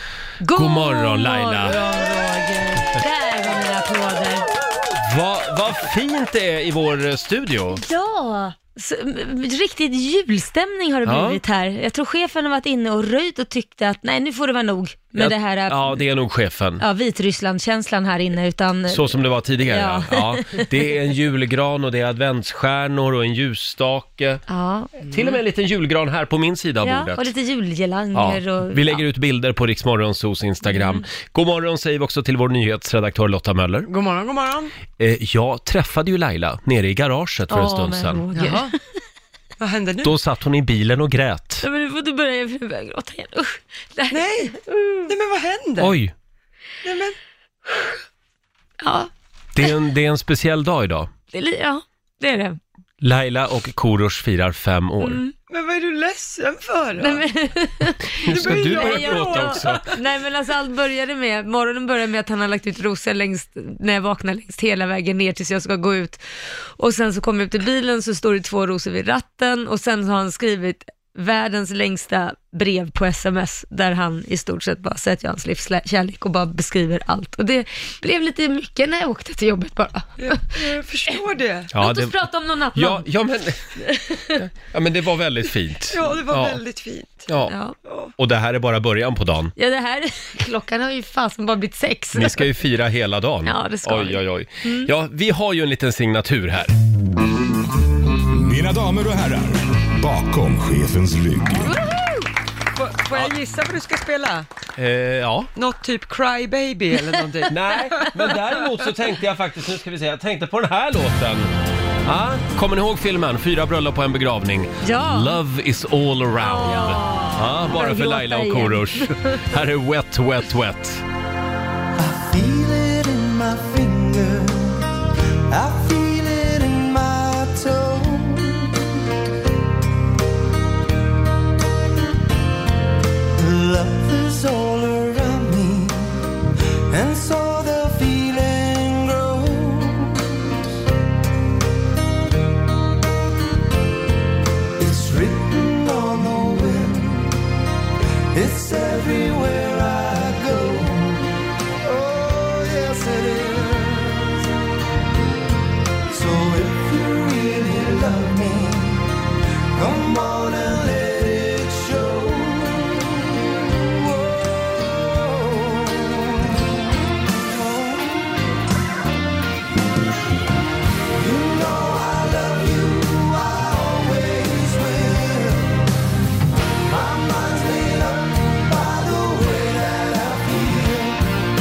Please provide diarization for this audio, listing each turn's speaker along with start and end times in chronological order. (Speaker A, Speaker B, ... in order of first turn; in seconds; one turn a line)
Speaker A: 0.4-4.5
Speaker B: 0.5-1.8
Speaker B: 4.9-7.8
Speaker A: 7.7-16.0
Speaker B: 11.0-11.4
Speaker B: 15.1-16.8
Speaker A: 16.8-20.8
Speaker B: 18.9-24.4
Speaker A: 24.5-24.9
Speaker B: 25.1-27.3
Speaker A: 26.8-29.0
Speaker B: 28.1-33.9
Speaker A: 30.7-31.0
Speaker C: 33.9-34.7
Speaker B: 35.0-38.2
Speaker A: 37.5-38.8
Speaker C: 38.3-38.7
Speaker C: 39.6-40.2
Speaker B: 40.0-41.6
Speaker A: 41.6-45.1
Speaker C: 44.1-46.0
Speaker B: 45.8-46.1
Speaker C: 46.8-47.1
Speaker A: 48.8-49.1
Speaker B: 49.5-51.1
Speaker A: 51.3-52.6
Speaker B: 53.0-55.2
Speaker A: 55.0-55.3
Speaker C: 55.5-57.2
Speaker A: 57.0-66.2
Speaker B: 58.2-59.9
Speaker C: 58.2-59.9
Speaker A: 66.8-80.4
Speaker C: 80.2-81.7
Speaker B: 81.7-82.2
Speaker A: 81.7-83.0
Speaker B: 82.7-83.8
Speaker A: 83.8-84.4
Speaker B: 84.3-86.6
Speaker C: 85.9-87.3
Speaker B: 87.3-87.5
Speaker A: 87.5-87.7
Speaker C: 87.8-88.1
Speaker B: 88.2-89.5
Speaker A: 89.5-92.5
Speaker B: 92.1-96.7
Speaker A: 93.4-94.9
Speaker D: 98.3-101.7
Speaker C: 101.6-104.5
Speaker B: 104.8-105.5
Speaker C: 105.5-108.6
Speaker B: 107.5-111.5
Speaker B: 112.0-121.0
Speaker A: 114.8-115.3
Speaker A: 116.4-119.5
Speaker E: 122.0-124.9
Speaker E: 125.5-128.8
Speaker E: 133.4-136.3
Speaker E: 136.9-140.5
Speaker E: 144.8-147.3
Speaker E: 148.3-151.3
Speaker C: 151.9-152.2
Speaker E: 152.2-154.2
Speaker E: 156.1-159.1
Speaker E: 159.8-162.9
Speaker E: 164.8-166.1
Speaker E: 171.2-175.7
Speaker E: 176.9-181.2